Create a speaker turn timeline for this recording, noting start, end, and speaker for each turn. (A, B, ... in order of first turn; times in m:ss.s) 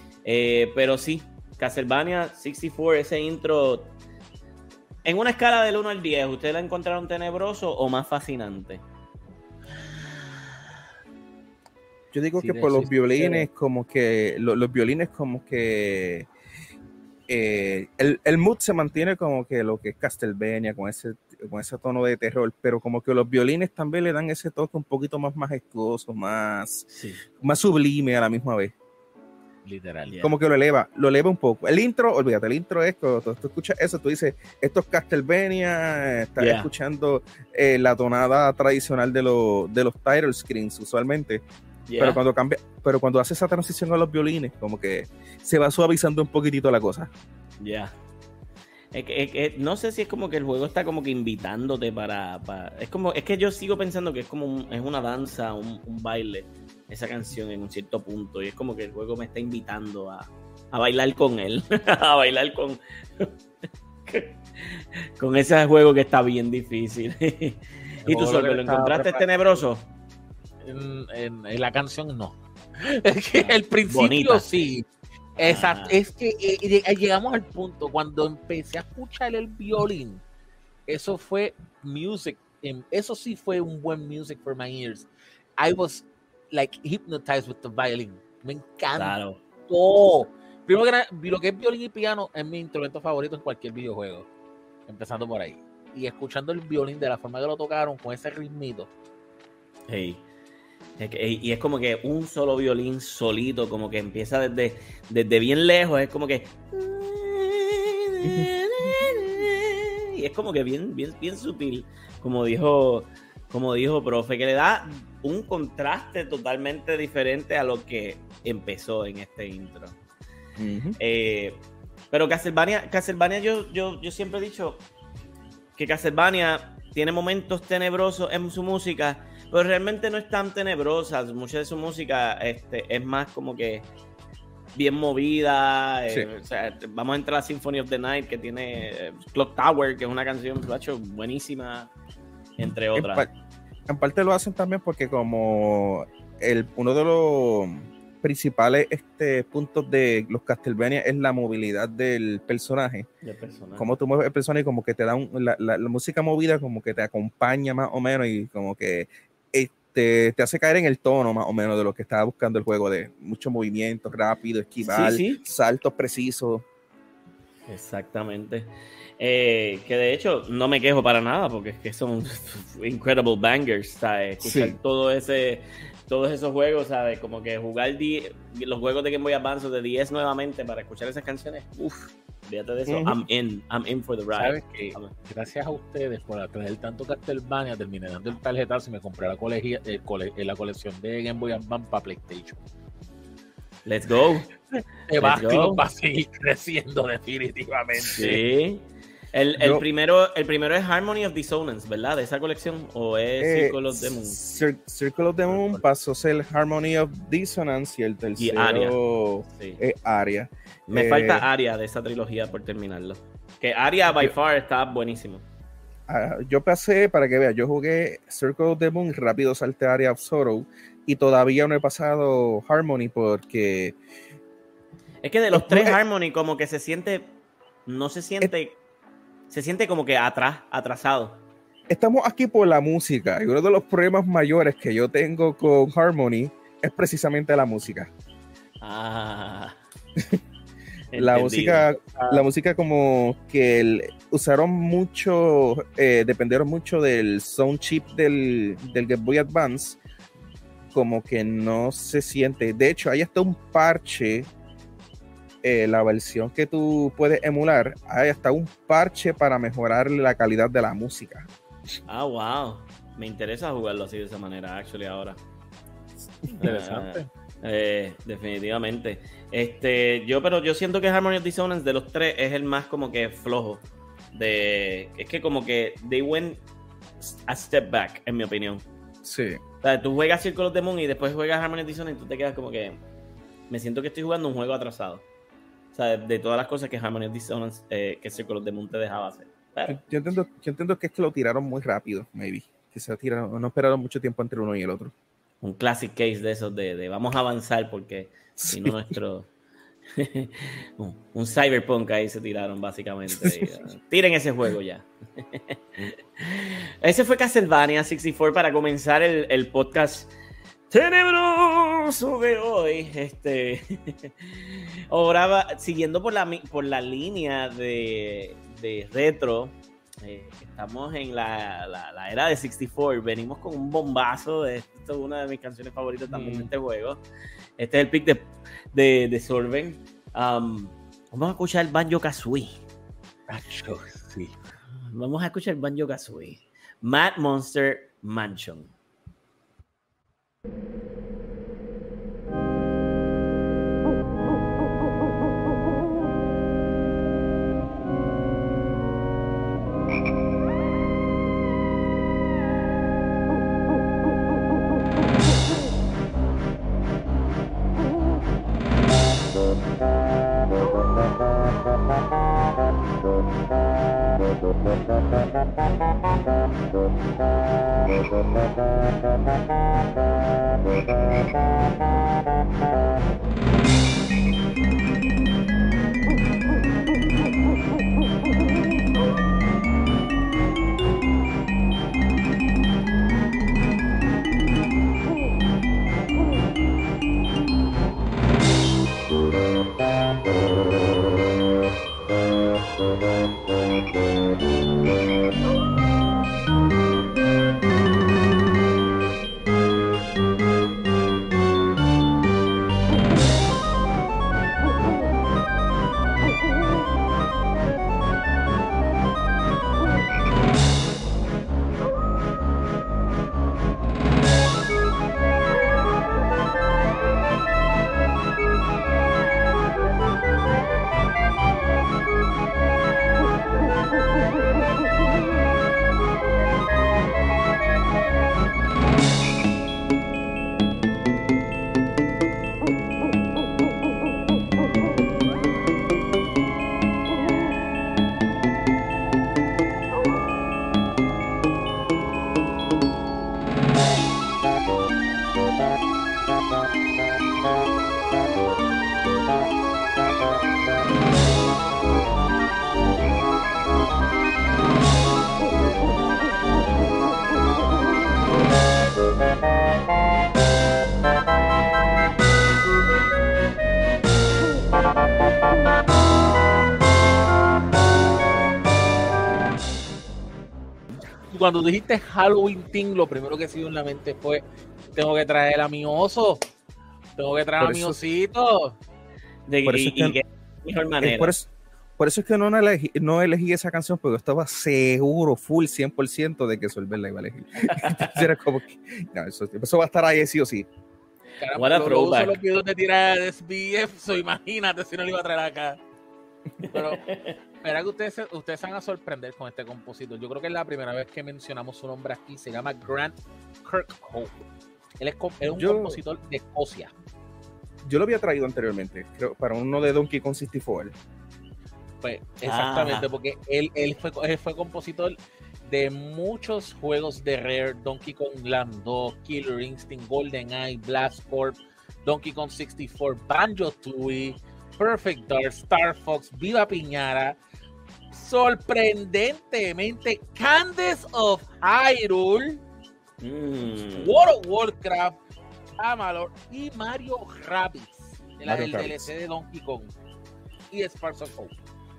0:00.2-0:03.9 A
0:05.0-0:08.8 A
0:09.8-0:10.6 B
0:12.1-0:16.3 C
0:12.4-0:13.5 B
0:17.3-0:26.8 C
0:26.9-0:27.2 A
0:27.4-0:28.7 C
0:29.6-0:30.2 B
0:30.2-0:41.4 C
0:36.4-0:36.7 A
0:41.9-0:42.2 A
0:42.0-0:47.1 C
0:47.6-0:47.9 A
0:48.9-1:03.3 A
1:04.0-1:09.9 A
1:08.0-1:09.2 B
1:10.6-1:20.2 B
1:13.3-1:14.7 A
1:15.4-1:16.0 A
1:20.9-1:34.3 B
1:28.9-1:29.4 A
1:34.9-1:38.9 B
1:39.9-1:40.2 A
1:41.0-2:00.0 A
1:48.2-1:49.0 C
2:00.6-2:01.0 C
2:01.0-2:04.8 A
2:05.8-2:13.8 A
2:14.7-2:21.9 A
2:22.6-2:23.3 A
2:22.9-2:23.3 C
2:23.9-2:33.1 C
2:33.2-2:33.9 A
2:33.8-2:46.6 C
2:44.8-2:45.4 A
2:47.7-3:05.1 A
2:54.4-2:54.8 C
3:02.9-3:03.2 C
3:04.3-3:12.6 B
3:13.8-3:14.5 A
3:15.1-3:18.4 B
3:15.2-3:15.8 A
3:18.0-3:24.4 A
3:19.6-3:19.8 C
3:23.4-3:31.4 C
3:28.4-3:29.0 A
3:29.5-3:29.8 A
3:30.9-3:35.4 A
3:36.1-3:44.0 C
3:45.2-3:47.3 A
3:45.5-3:46.0 C
3:47.9-3:48.8 A
3:49.5-3:51.4 A
3:51.9-3:58.1 C
3:58.8-3:59.8 A
4:01.1-4:01.9 A
4:01.1-4:10.0 C
4:10.9-4:14.5 C
4:15.6-4:21.5 C
4:22.1-4:25.4 A
4:26.5-4:36.6 A
4:26.6-4:27.3 B
4:37.2-4:38.8 A
4:39.2-4:39.6 C
4:39.8-4:43.0 A
4:43.7-4:45.2 A
4:45.9-4:50.0 A
4:49.9-4:55.1 C
4:55.6-4:59.5 A
4:58.6-4:59.2 C
5:00.1-5:10.3 A
5:03.3-5:03.7 C
5:10.9-5:27.2 A
5:26.3-5:26.7 B
5:27.8-5:32.8 A
5:33.5-5:34.6 B
5:35.0-5:38.9 A
7:51.5-7:54.6 B
7:55.1-7:56.6 B
7:57.4-7:59.0 B
7:57.8-7:58.2 C
7:59.7-8:01.5 A
7:59.8-8:00.4 C
8:01.2-8:10.9 C
8:07.8-8:08.4 A
8:11.6-8:16.0 B
8:11.7-8:12.6 A
8:16.8-8:17.2 B
8:16.8-8:17.6 A
8:17.8-8:24.6 B
8:25.2-8:27.1 B
8:25.8-8:26.2 C
8:28.0-8:31.1 C
8:32.2-8:47.6 B
8:32.6-8:33.3 A
8:48.3-8:52.8 B
8:53.4-8:54.4 A
8:54.0-8:55.4 B
8:56.0-9:00.1 B
8:58.6-8:59.3 C
9:00.9-9:01.8 B